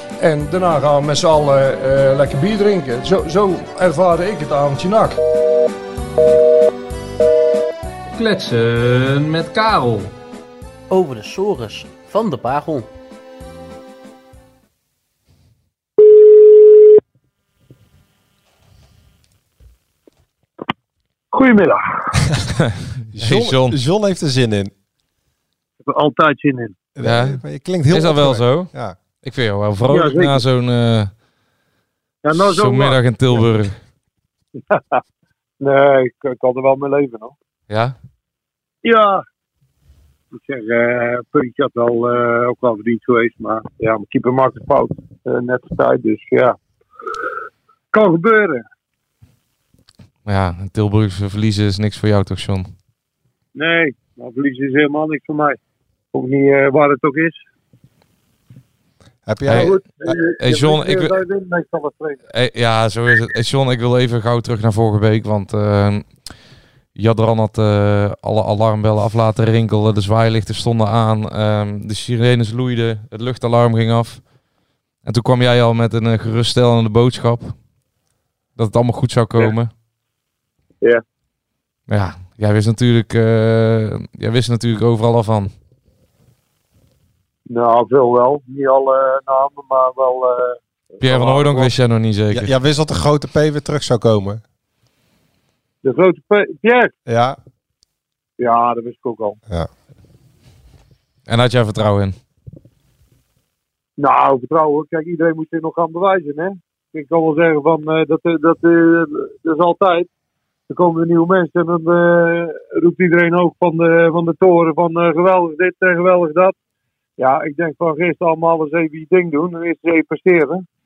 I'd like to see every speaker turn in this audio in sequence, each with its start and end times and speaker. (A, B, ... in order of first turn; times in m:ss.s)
0:00.2-0:05.2 A
0:08.2-0:10.1 A
0:10.9-0:12.9 B
0:21.3-0:21.8 C
0:23.1-0:24.7 D
0:23.2-0:23.8 E
0:25.8-0:26.8 C
0:27.0-0:29.0 D
0:27.0-0:28.7 E
0:29.2-0:31.1 E
0:29.9-0:30.4 C
0:32.2-0:33.4 C
0:32.4-0:33.8 E
0:34.7-0:35.0 C
0:35.6-0:37.3 C
0:37.7-0:38.0 E
0:38.8-0:39.2 C
0:40.3-0:46.6 C
0:47.9-0:48.6 C
0:50.2-0:52.7 E
0:53.6-0:55.6 C
0:56.1-0:57.4 C
0:59.3-1:00.2 D
0:59.5-0:59.8 E
0:59.5-1:02.2 C
1:00.4-1:01.2 E
1:02.3-1:06.4 E
1:07.0-1:14.3 E
1:15.0-1:17.6 E
1:18.6-1:19.7 E
1:21.9-1:25.5 E
1:27.5-1:31.7 C
1:31.0-1:32.5 E
1:32.3-1:34.4 D
1:35.8-1:36.9 C
1:37.1-1:37.4 D
1:38.4-1:39.4 C
1:41.3-1:42.2 E
1:44.0-1:50.1 C
1:50.7-1:56.6 C
1:57.2-2:00.6 C